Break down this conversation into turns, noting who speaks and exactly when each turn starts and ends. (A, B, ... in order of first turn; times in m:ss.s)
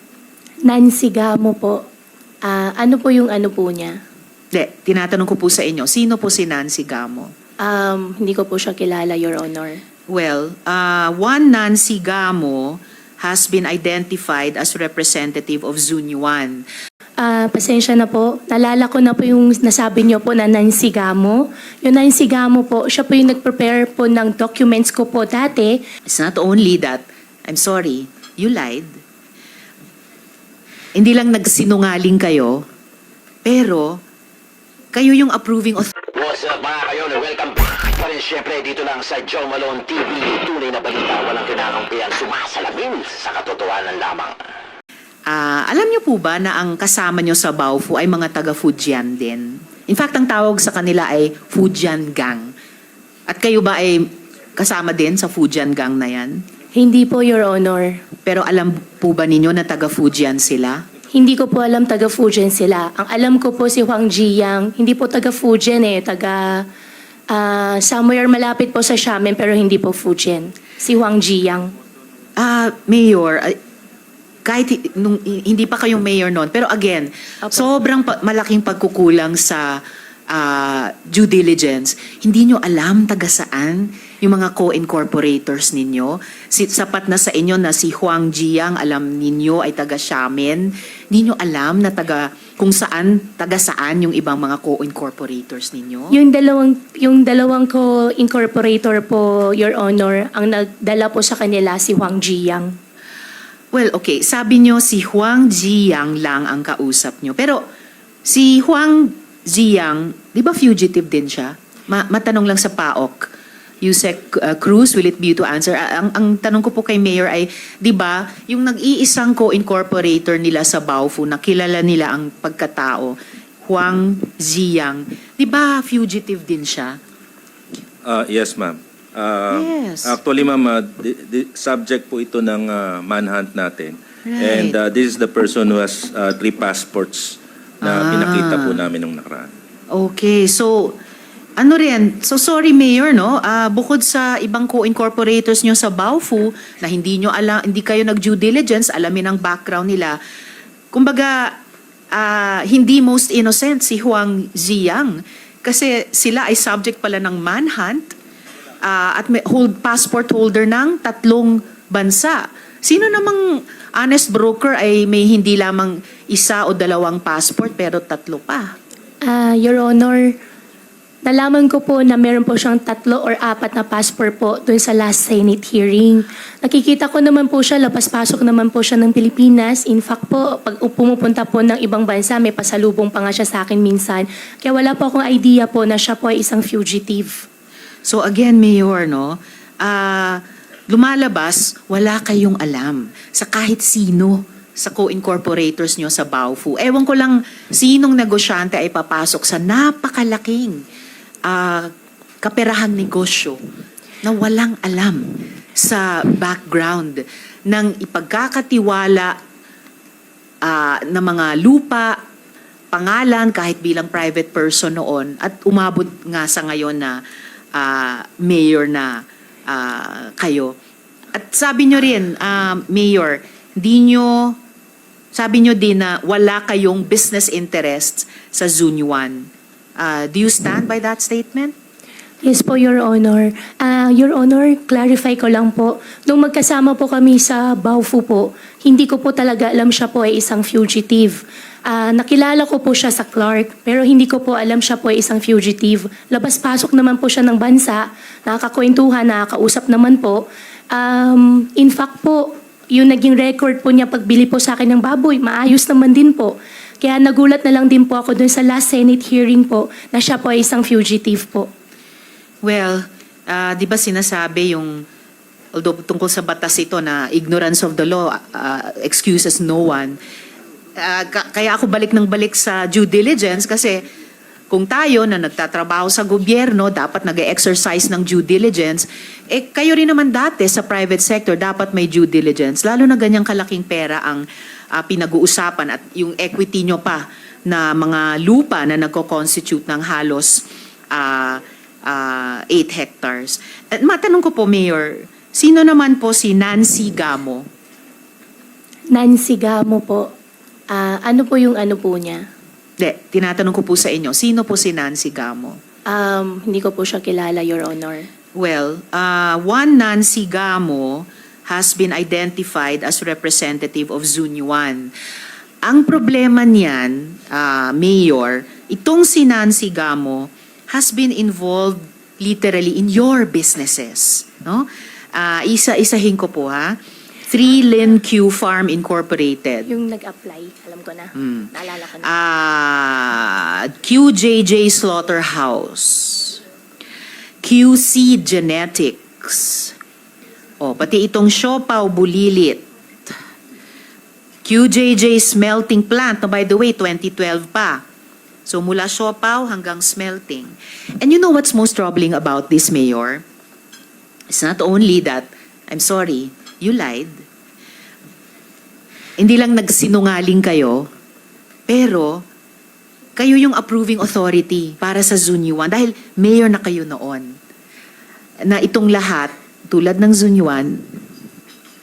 0:00.6-0:01.8 A
0:02.4-0:04.0 A
0:04.5-0:07.3 B
0:07.6-0:09.8 A
0:10.1-0:16.6 B
0:17.2-0:25.8 A
0:26.1-0:29.0 B
0:31.0-0:32.7 B
0:33.4-0:34.0 B
0:34.9-0:36.0 B
0:36.1-0:44.4 C
0:45.3-0:52.5 B
0:53.3-0:56.4 B
0:56.7-0:58.0 A
0:58.3-1:00.8 B
1:01.1-1:06.7 A
1:07.3-1:11.7 A
1:12.4-1:13.6 B
1:14.5-1:36.2 B
1:36.1-1:42.8 A
1:43.7-1:47.6 B
1:48.3-1:53.3 B
1:53.8-2:07.0 B
2:08.0-2:19.5 D
2:09.5-2:10.2 B
2:14.3-2:14.8 B
2:17.8-2:18.8 B
2:19.9-2:21.0 B
2:21.6-2:30.2 B
2:30.9-2:31.6 B
2:32.1-2:38.2 B
2:38.8-2:48.8 B
2:49.2-2:50.4 A
2:51.2-3:07.4 A
3:08.1-3:20.8 B
3:21.5-3:23.6 B
3:24.2-3:29.4 B
3:30.6-3:32.2 B
3:32.9-3:37.2 B
3:37.8-3:40.8 B
3:41.3-3:44.6 B
3:45.3-3:51.8 B
3:52.4-4:21.7 A
4:22.6-4:25.0 B
4:25.7-4:30.2 B
4:31.0-4:34.1 B
4:34.7-4:57.7 B
4:59.1-5:00.3 A
5:00.9-5:02.5 A
5:03.0-5:05.8 B
5:06.1-5:08.3 A
5:08.6-5:15.1 B
5:15.8-5:27.0 B
5:27.5-5:29.9 B
5:29.9-5:32.3 A
5:31.4-5:31.7 B
5:32.2-5:36.6 B
5:37.6-5:40.0 B
5:40.8-5:42.9 B
5:44.6-5:48.0 B
5:48.7-5:53.4 B
5:54.5-5:57.4 B
5:59.4-6:01.1 B
6:01.9-6:02.5 B
6:03.4-6:07.6 B
6:08.6-6:11.1 B